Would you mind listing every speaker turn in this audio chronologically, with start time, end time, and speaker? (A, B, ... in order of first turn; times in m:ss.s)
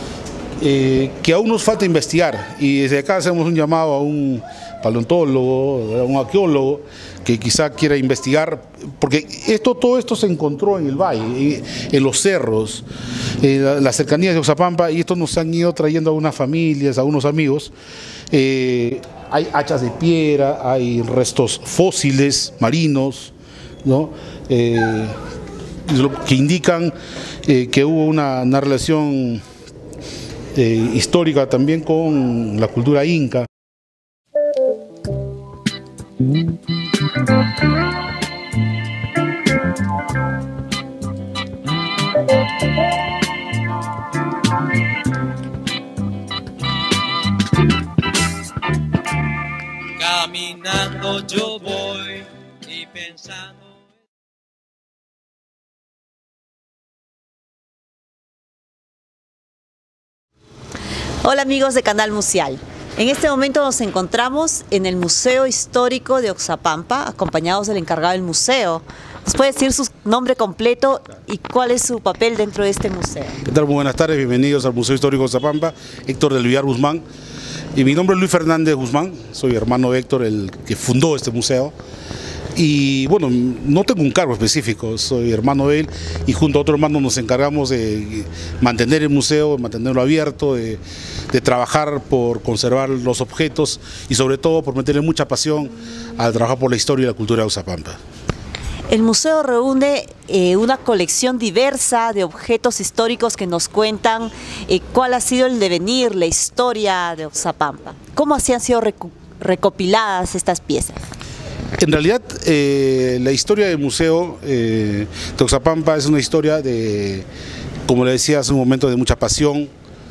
0:00.6-0:12.8 A
0:13.4-0:17.7 A
0:18.3-0:25.1 A
0:25.8-0:29.4 A
0:30.5-0:33.5 A
0:50.0-0:53.7 B
1:01.2-1:13.4 C
1:13.4-1:17.0 A
1:17.7-1:21.7 A
1:22.5-1:38.0 A
1:38.9-1:51.0 C
1:51.8-1:57.3 A
1:57.9-1:59.7 A